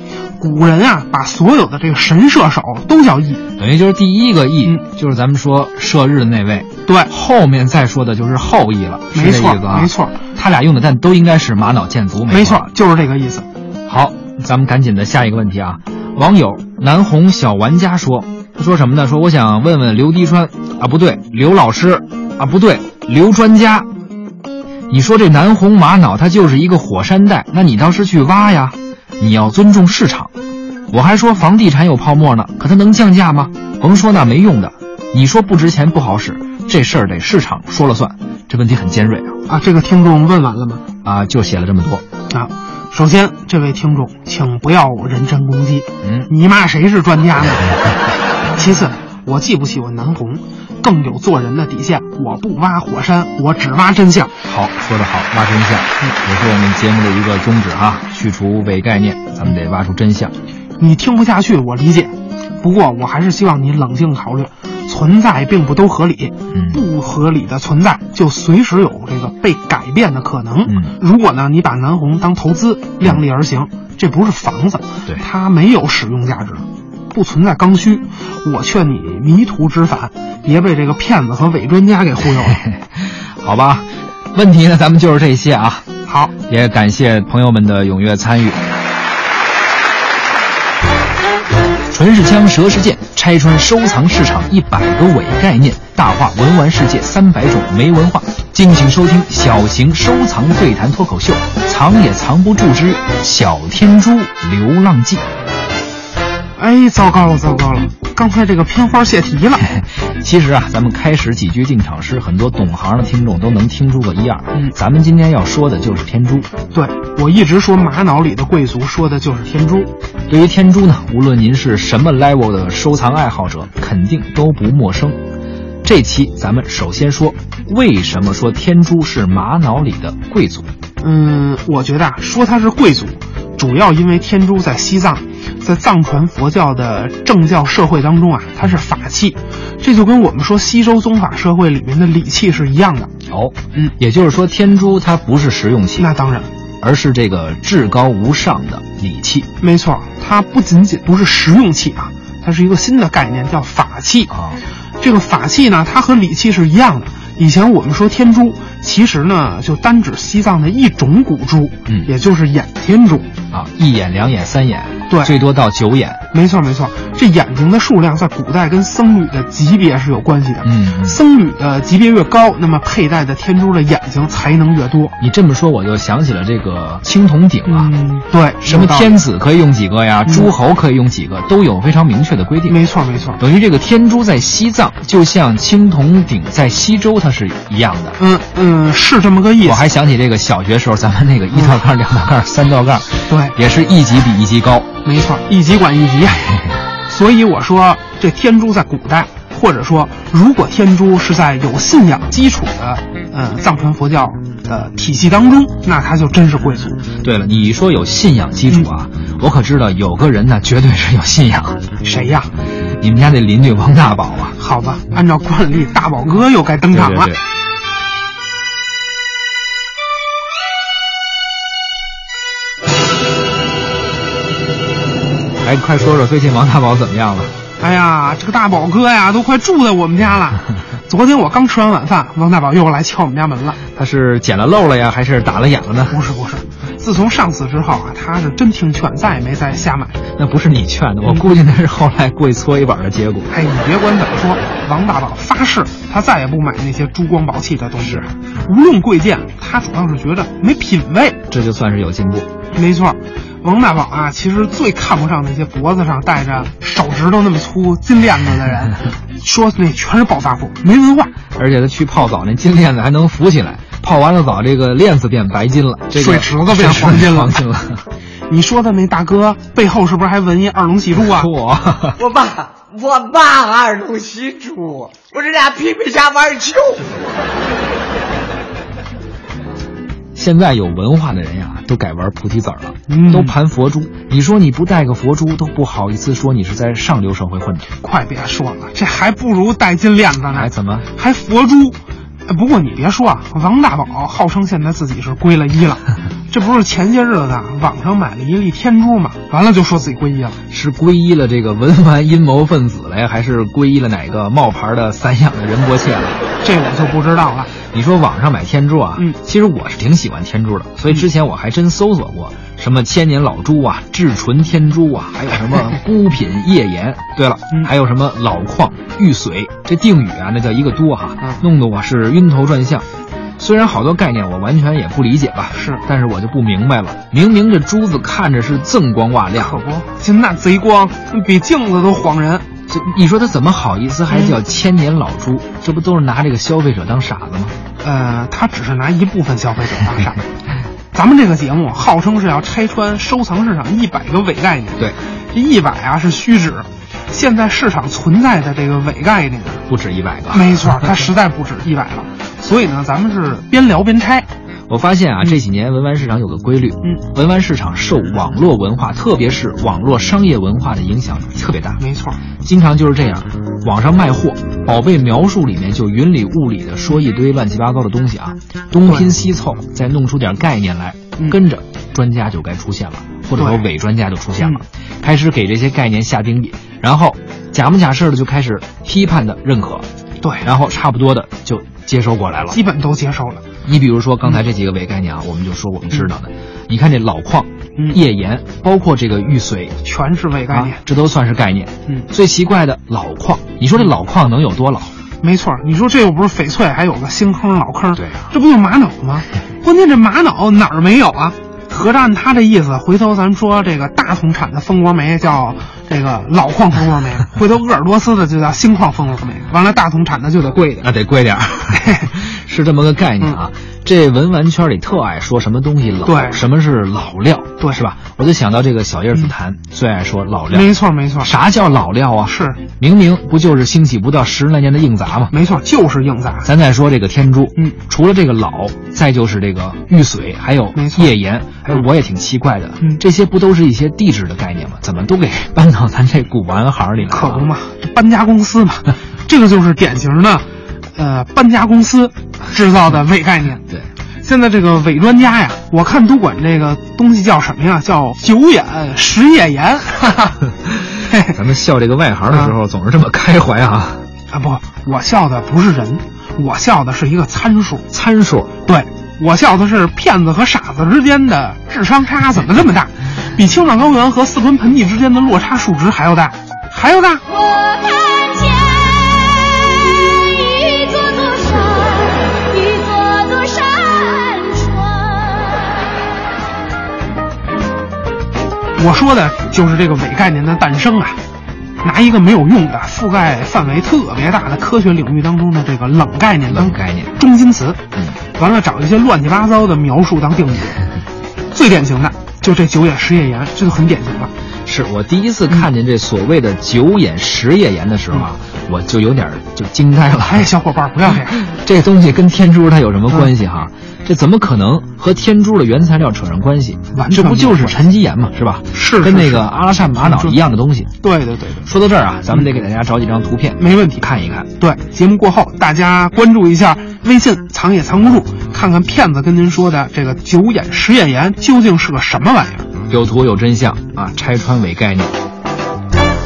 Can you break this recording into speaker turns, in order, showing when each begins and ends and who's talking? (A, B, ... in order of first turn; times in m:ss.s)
0:00.4-0:03.4 A
0:03.6-0:12.7 B
0:09.1-0:10.2 A
0:12.3-0:13.5 A
0:13.9-0:23.9 B
0:24.9-0:30.3 B
0:30.9-0:39.4 B
0:39.5-0:40.8 A
0:41.0-0:42.0 B
0:42.3-0:47.8 A
0:46.0-0:46.3 B
0:48.6-0:54.3 A
0:54.4-1:00.3 B
1:00.8-1:22.6 A
1:06.5-1:06.8 B
1:10.7-1:10.9 B
1:22.5-1:25.8 B
1:26.0-1:26.3 A
1:26.5-1:28.6 B
1:31.9-1:45.2 B
1:46.6-1:49.6 A
1:49.6-1:56.5 B
1:56.7-1:59.9 A
2:00.3-2:05.2 B
2:05.8-2:10.7 B
2:11.0-2:23.1 A
2:23.3-2:26.1 B
2:26.0-2:26.5 A
2:26.8-2:29.5 B
2:29.6-2:34.3 A
2:34.3-2:34.6 B
2:35.0-2:43.3 A
2:43.5-2:46.2 B
2:45.1-2:45.3 A
2:46.3-2:55.2 A
2:50.6-2:51.2 B
2:55.2-2:57.9 B
2:57.7-2:59.2 A
2:58.6-3:02.8 B
3:00.3-3:00.5 A
3:02.7-3:03.4 A
3:03.4-3:08.2 B
3:08.2-3:09.9 A
3:09.6-3:14.9 B
3:13.3-3:13.6 A
3:15.0-3:16.5 A
3:17.1-3:27.0 A
3:27.2-3:31.8 B
3:32.0-3:32.5 A
3:33.0-3:34.6 B
3:34.6-3:37.3 A
3:36.9-3:37.4 B
3:45.6-3:47.5 B
3:47.8-3:53.8 A
3:53.9-3:56.2 B
3:56.1-4:00.2 A
4:00.4-4:03.5 B
4:03.5-4:11.4 A
4:08.0-4:08.3 B
4:11.5-4:12.5 B
4:12.7-4:21.4 A
4:21.5-4:28.0 B
4:26.1-4:27.6 A
4:28.5-4:31.5 A
4:31.2-4:32.2 B
4:32.2-4:37.1 C
4:40.3-4:47.9 B
4:43.1-4:43.6 A
4:48.0-5:00.6 A
4:50.5-4:51.1 B
5:00.7-5:06.4 B
5:06.6-5:07.7 A
5:07.9-5:23.0 B
5:23.6-5:29.8 B
5:25.7-5:26.0 A
5:29.6-5:32.6 A
5:32.9-5:37.8 B
5:34.3-5:34.6 A
5:38.0-5:40.4 A
5:41.1-5:49.8 A
5:49.9-5:51.0 B
5:50.5-5:54.5 A
5:54.9-6:02.0 B
6:02.0-6:02.4 A
6:02.6-6:20.0 B
6:09.0-6:09.3 A
6:13.6-6:13.8 A
6:20.4-6:20.7 A
6:20.6-6:22.8 B
6:22.7-6:23.6 A
6:23.8-6:30.0 B
6:30.0-6:31.0 A
6:30.7-6:35.1 B
6:35.4-6:51.1 A
6:38.2-6:38.5 B
6:51.0-7:05.5 B
6:56.2-6:56.6 A
7:00.7-7:01.5 A
7:02.5-7:02.8 A
7:05.5-7:06.7 A
7:06.6-7:17.6 B
7:10.9-7:11.3 A
7:17.3-7:23.8 A
7:24.4-7:30.6 A
7:31.3-7:31.6 A
7:31.3-7:34.2 B
7:32.5-7:32.7 A
7:34.5-7:38.1 A
7:38.1-7:38.7 B
7:38.8-7:47.4 A
7:47.7-7:55.9 D
7:59.0-8:01.4 A
8:02.0-8:08.0 A
8:06.7-8:07.3 B
8:08.5-8:11.0 A
8:11.7-8:14.5 A
8:14.8-8:20.7 B
8:20.3-8:21.6 A
8:21.7-8:31.1 B
8:27.1-8:27.9 A
8:28.9-8:30.6 A
8:31.2-8:31.9 A
8:31.8-8:34.7 B
8:33.8-8:42.9 A
8:43.1-8:45.3 B